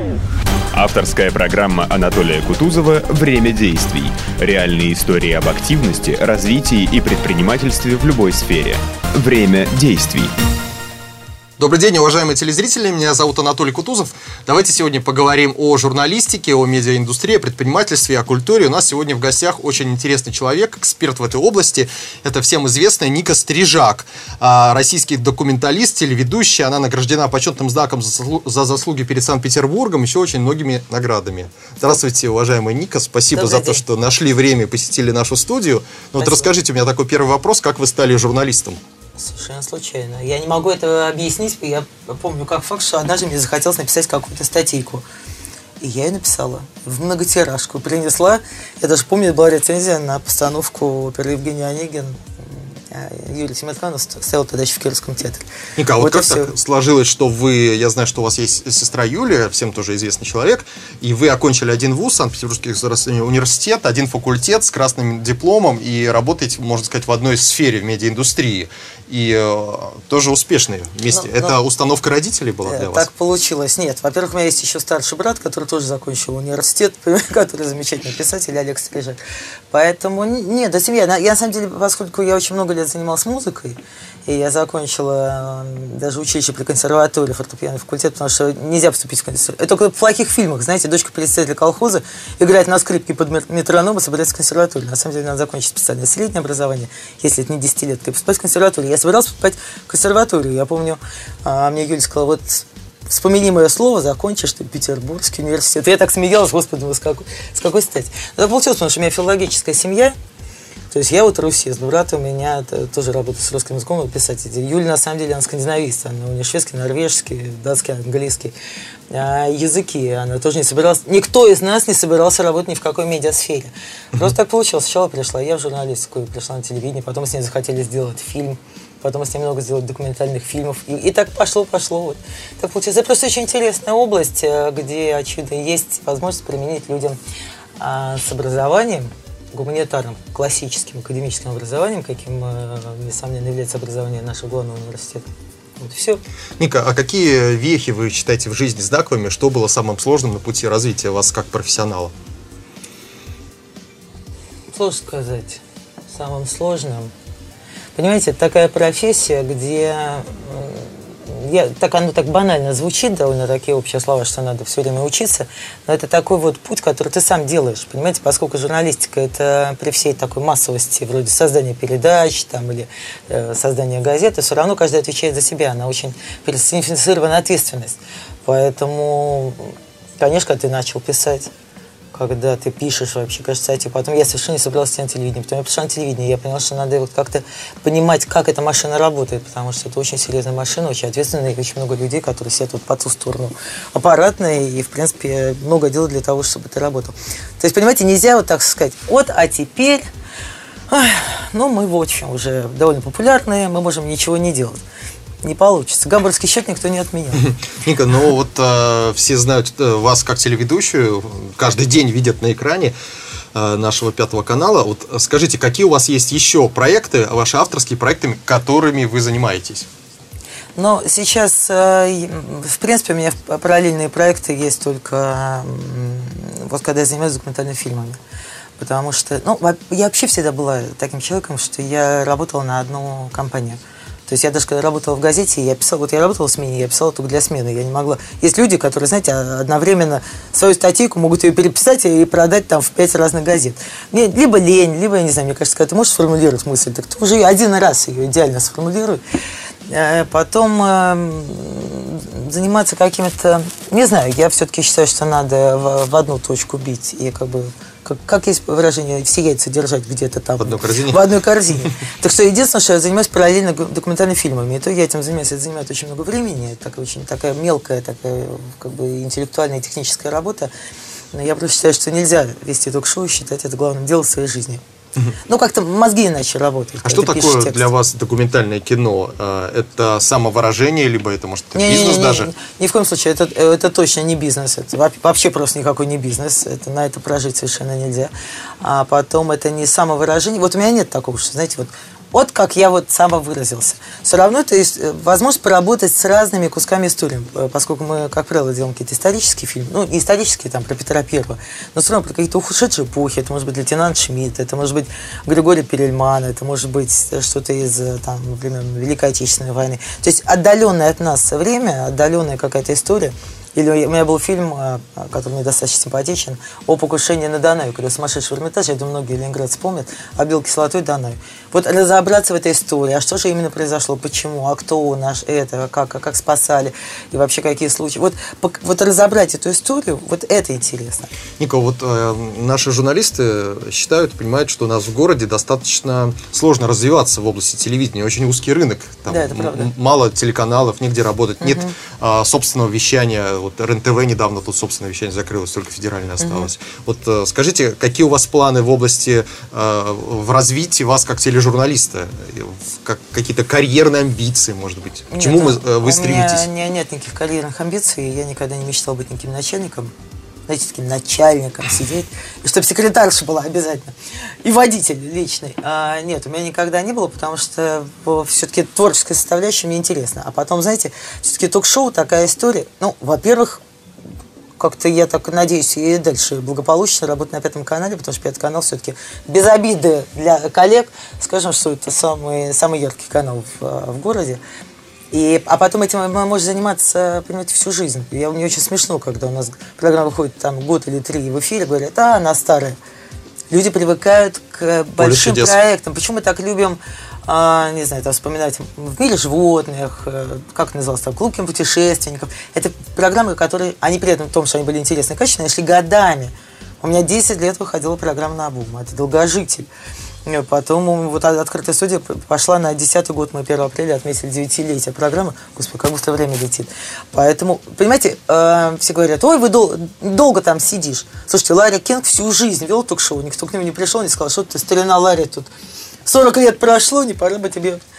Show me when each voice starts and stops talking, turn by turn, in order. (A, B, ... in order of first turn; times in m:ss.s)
0:00.7-0:10.4 A
0:11.6-0:38.8 B
0:33.3-0:33.8 C
0:36.2-0:36.5 C
0:39.2-0:45.0 C
0:45.8-0:56.5 C
0:55.8-1:13.1 B
1:11.1-1:11.6 C
1:12.6-1:19.2 C
1:19.7-1:50.2 C
1:50.9-1:58.5 C
1:59.1-2:17.2 C
2:17.8-2:26.2 C
2:26.6-2:32.1 B
2:34.7-2:35.6 C
2:36.1-2:37.1 C
2:38.0-3:01.5 C
3:02.1-3:20.1 C
3:20.9-3:24.8 C
3:25.4-3:27.5 C
3:27.6-3:32.9 B
3:33.5-3:39.9 B
3:40.8-3:48.2 C
3:48.8-4:09.2 C
4:09.9-4:30.7 C
4:20.6-4:21.2 B
4:31.3-4:34.8 C
4:35.4-4:37.9 C
4:37.0-4:42.5 B
4:41.7-5:31.3 C
5:31.6-5:56.7 B
5:39.3-5:39.9 C
5:41.6-5:41.9 C
5:46.4-5:46.7 C
5:55.3-6:00.1 C
6:00.7-6:13.8 C
6:14.8-6:24.6 C
6:25.3-6:33.0 C
6:33.7-6:49.9 C
6:35.2-6:35.8 B
6:50.5-7:05.7 C
7:06.3-7:08.0 C